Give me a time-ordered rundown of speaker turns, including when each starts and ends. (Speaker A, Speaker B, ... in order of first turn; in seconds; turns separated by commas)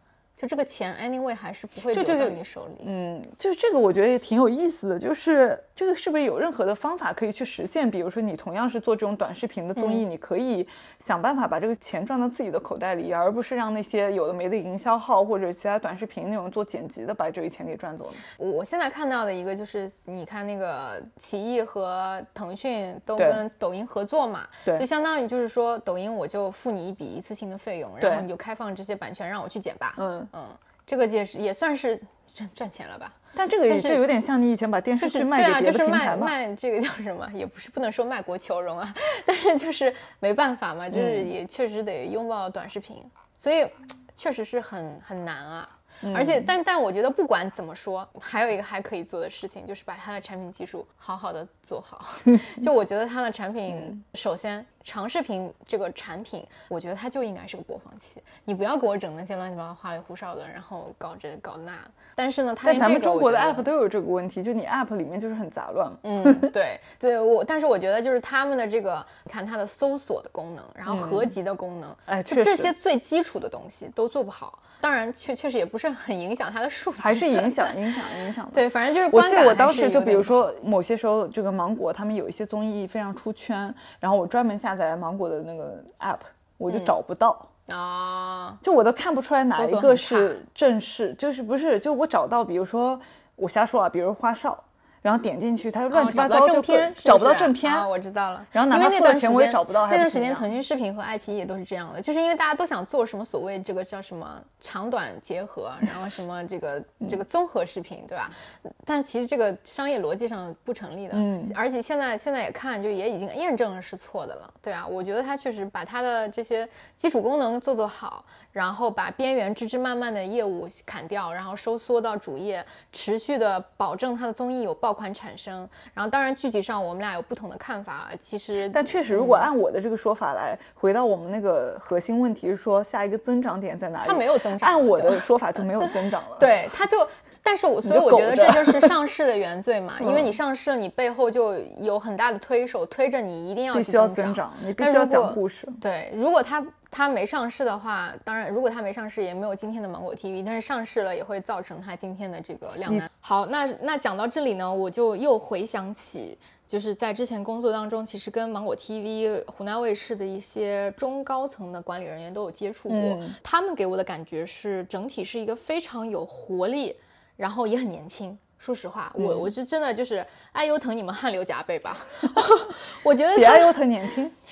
Speaker A: 0.4-2.9, Speaker B: 1.9-18.2, Speaker A: 9.8-10.0, Speaker A: 18.4-34.0, Speaker B: 23.2-23.4, Speaker B: 28.0-28.2, Speaker B: 30.0-30.3, Speaker B: 33.3-36.3, Speaker A: 35.0-63.7, Speaker B: 40.9-41.3, Speaker B: 46.0-46.5, Speaker B: 53.7-54.0, Speaker B: 62.6-66.5, Speaker A: 66.0-80.3, Speaker B: 70.9-71.3, Speaker B: 72.1-72.7, Speaker B: 77.0-87.5, Speaker A: 86.7-87.0, Speaker A: 87.7-88.6, Speaker B: 88.6-97.9, Speaker A: 89.5-90.4, Speaker A: 95.9-129.5, Speaker B: 98.5-100.5, Speaker B: 111.1-111.5, Speaker B: 128.5-136.5, Speaker A: 134.0-173.8, Speaker B: 137.8-138.9, Speaker B: 140.0-140.3, Speaker B: 143.7-145.8, Speaker B: 162.9-163.4, Speaker B: 169.2-169.5, Speaker B: 173.3-174.3